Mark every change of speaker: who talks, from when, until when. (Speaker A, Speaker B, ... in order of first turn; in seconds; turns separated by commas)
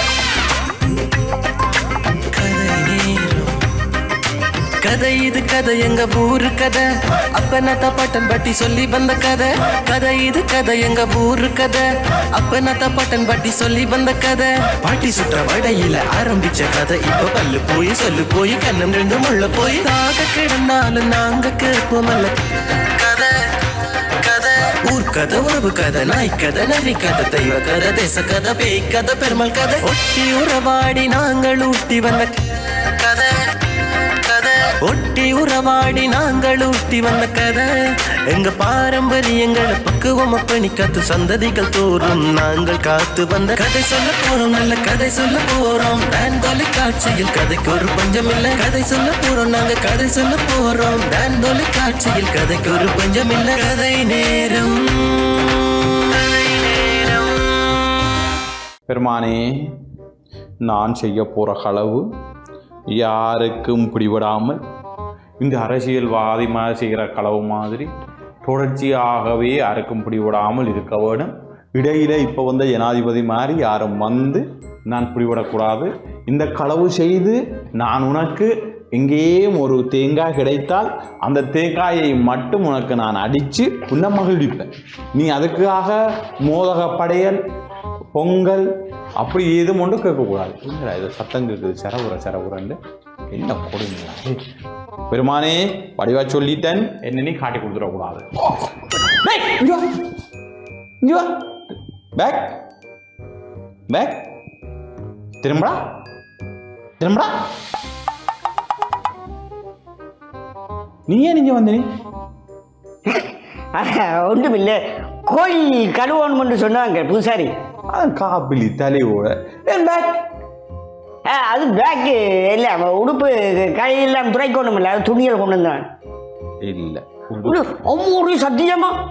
Speaker A: 2.3-3.6, Speaker A: 4.8-37.7, Speaker A: 38.3-57.8, Speaker B: 58.9-59.8, Speaker B: 60.6-62.1, Speaker B: 62.9-64.6, Speaker B: 65.4-67.9, Speaker B: 68.4-87.4, Speaker B: 88.1-88.7, Speaker B: 89.2-92.8, Speaker B: 93.3-94.5, Speaker B: 95.1-100.0, Speaker B: 101.0-102.6, Speaker B: 103.9-104.3, Speaker B: 105.4-105.9, Speaker B: 107.0-107.4, Speaker B: 111.1-111.9, Speaker C: 113.1-117.5, Speaker B: 117.9-120.2, Speaker C: 121.3-125.9, Speaker B: 126.6-127.7, Speaker C: 127.5-129.0